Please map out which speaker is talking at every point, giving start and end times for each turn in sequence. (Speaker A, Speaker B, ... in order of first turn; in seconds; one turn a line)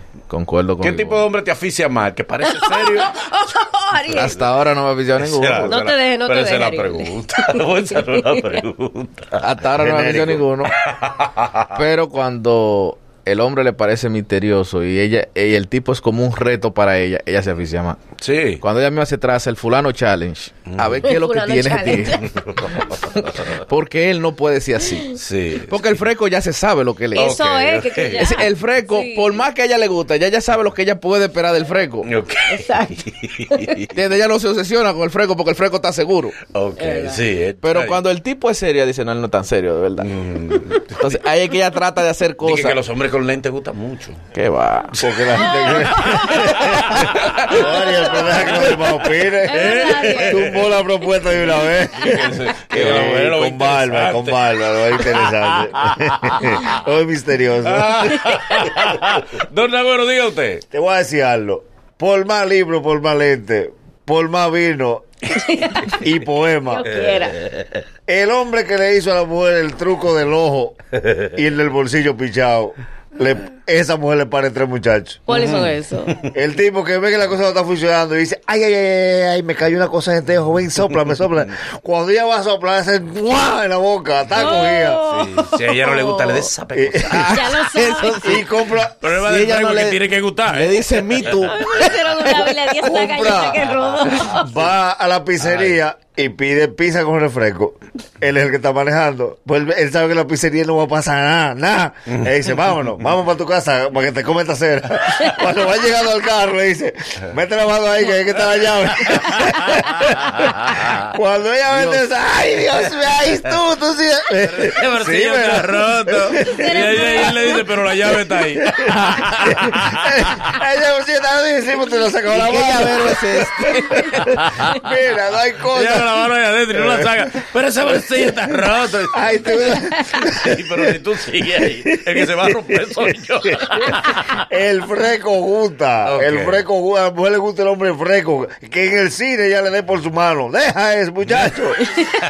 Speaker A: 0.3-1.3
Speaker B: 0.8-3.1
Speaker C: 2.4-4.2
Speaker B: 4.0-4.5
Speaker A: 4.1-5.8
Speaker B: 5.2-9.4
Speaker C: 5.6-7.1
Speaker C: 7.9-8.4
Speaker A: 9.4-10.7
Speaker D: 9.8-10.4
Speaker B: 10.9-11.8
Speaker A: 11.7-18.0
Speaker B: 18.2-18.6
Speaker A: 18.6-27.4
Speaker B: 20.7-21.1
Speaker C: 21.0-22.2
Speaker B: 22.2-23.5
Speaker B: 25.1-26.0
Speaker C: 27.1-29.4
Speaker B: 27.1-28.3
Speaker A: 28.2-32.1
Speaker B: 32.0-33.9
Speaker C: 32.5-33.8
Speaker A: 33.9-36.3
Speaker B: 36.5-38.0
Speaker C: 36.8-37.2
Speaker A: 37.6-40.1
Speaker B: 40.0-41.2
Speaker A: 41.0-42.8
Speaker B: 42.4-44.2
Speaker A: 44.3-44.9
Speaker D: 45.0-58.2
Speaker C: 45.4-46.5
Speaker B: 46.0-47.6
Speaker C: 47.8-48.2
Speaker B: 48.2-48.8
Speaker C: 49.5-50.4
Speaker B: 49.5-50.7
Speaker B: 52.0-56.8
Speaker A: 52.7-53.0
Speaker B: 57.7-60.6
Speaker D: 60.7-65.0
Speaker C: 65.3-66.0
Speaker D: 66.0-66.9
Speaker C: 66.7-67.4
Speaker B: 66.8-67.8
Speaker D: 68.1-70.8
Speaker D: 71.3-75.2
Speaker C: 75.3-76.1
Speaker B: 75.3-76.2
Speaker D: 76.3-85.0
Speaker C: 84.3-86.5
Speaker B: 85.0-87.3
Speaker D: 86.7-87.2
Speaker A: 87.1-88.4
Speaker C: 87.3-88.4
Speaker D: 88.2-88.9
Speaker B: 89.0-91.5
Speaker A: 89.0-92.6
Speaker C: 91.4-94.5
Speaker D: 92.8-93.7
Speaker D: 94.2-118.8
Speaker B: 95.4-95.8
Speaker B: 102.1-103.0
Speaker B: 108.4-110.8
Speaker B: 111.7-112.0
Speaker B: 114.4-120.3
Speaker C: 116.5-117.6
Speaker A: 119.0-119.2
Speaker D: 119.4-127.2
Speaker A: 122.3-124.0
Speaker B: 124.2-124.7
Speaker B: 125.7-134.4
Speaker D: 128.2-131.0
Speaker D: 131.6-141.8
Speaker B: 136.0-136.6
Speaker B: 141.2-141.6